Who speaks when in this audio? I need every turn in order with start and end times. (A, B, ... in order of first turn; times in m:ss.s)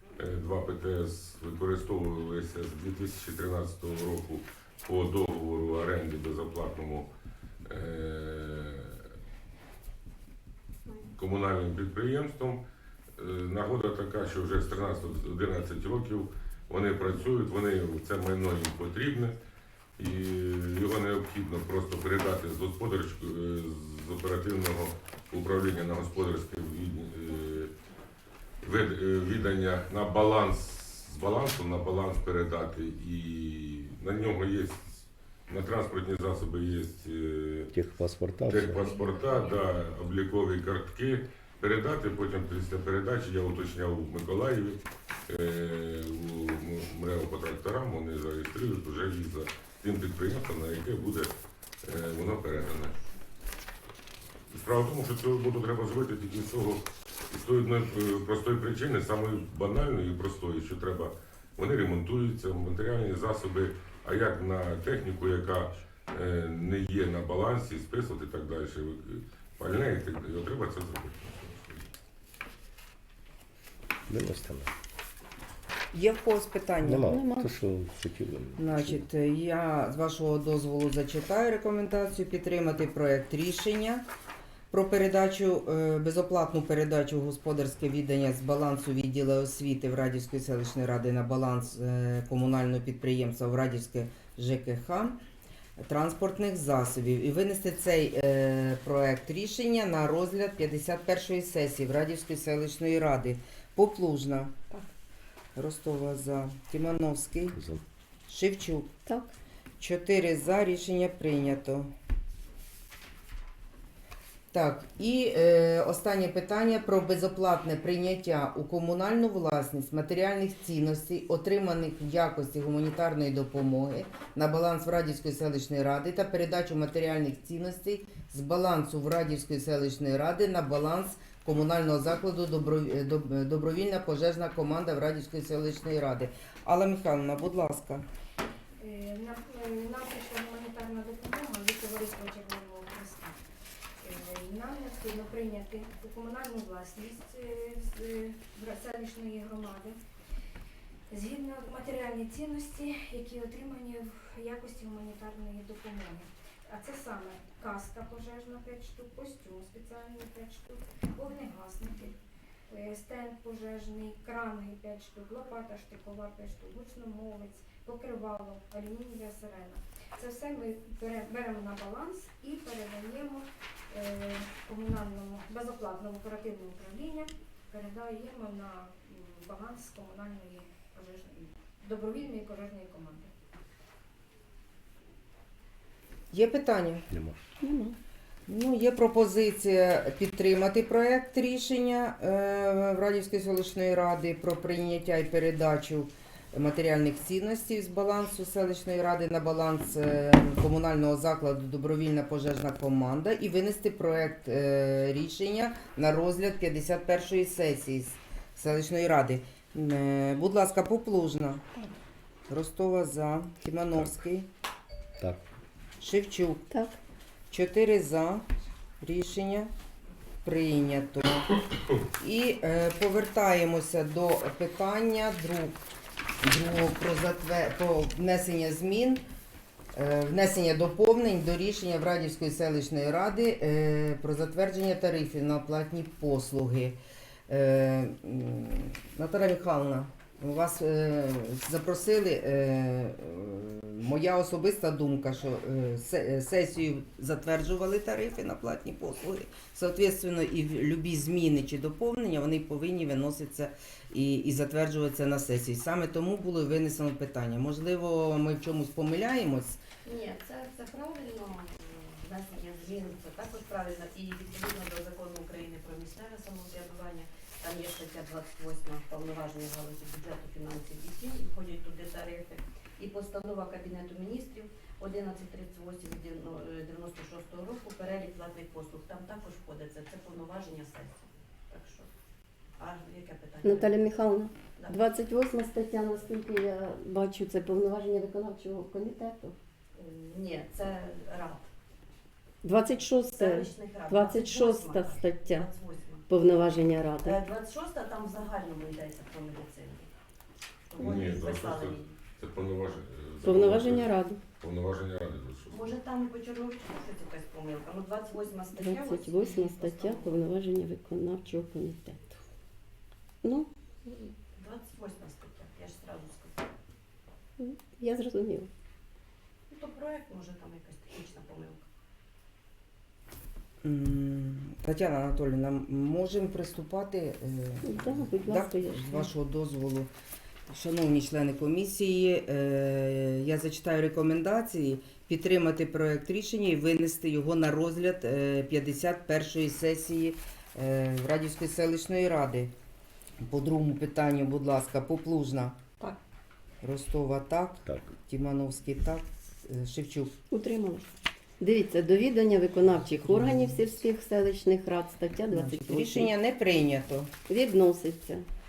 0:00.2-0:07.1 A
0:07.7-0:09.0 A
0:11.1-0:12.6 A
0:13.2-0:19.3 A
0:20.0-0:27.7 A
0:28.6-0:37.7 A
0:37.7-0:39.0 B
0:38.5-0:51.3 A
0:38.7-0:39.7 C
0:51.8-0:52.9 A
0:54.5-1:11.8 A
1:14.1-1:14.7 B
1:15.9-1:17.1 D
1:16.8-1:19.0 B
1:17.0-1:17.5 E
1:18.6-1:24.0 D
1:24.7-1:35.2 D
1:35.8-1:44.5 D
1:45.6-1:47.6 D
1:47.5-1:47.8 B
1:48.3-1:48.9 D
1:49.0-1:49.3 E
1:49.8-1:51.9 D
1:54.5-2:18.0 D
2:18.8-2:23.4 F
2:24.0-2:30.0 F
2:31.1-2:42.1 F
2:42.7-3:03.3 F
3:06.3-3:07.1 D
3:07.1-3:07.4 B
3:07.6-3:08.0 E
3:08.5-3:31.6 D
3:32.5-3:34.5 D
3:36.0-3:36.6 D
3:36.7-3:37.0 E
3:37.5-3:38.4 D
3:39.0-3:39.7 D
3:40.4-3:41.5 D
3:42.2-3:45.8 D
3:46.4-3:49.2 D
3:49.9-4:19.8 D
4:20.0-4:42.1 C
4:42.8-4:44.0 C
4:43.6-4:49.6 E
4:49.9-4:51.7 C
4:52.6-4:55.7 E
4:53.3-4:56.2 C
4:56.3-4:57.4 E
4:57.2-5:00.1 C
5:00.9-5:02.2 C
5:01.0-5:05.9 A
5:03.4-5:04.4 E
5:05.7-5:10.3 C
5:08.8-5:12.4 E
5:13.4-5:14.3 E
5:14.6-5:16.6 C
5:17.6-5:18.7 E
5:19.7-5:21.8 C
5:23.8-5:30.1 D
5:27.8-5:29.3 E
5:30.7-5:42.7 D
5:43.4-5:45.8 D
5:46.8-5:50.3 D
5:50.5-5:51.1 E
5:51.6-5:56.3 E
5:53.2-5:54.0 D
5:55.5-5:57.3 D
5:57.5-5:58.4 E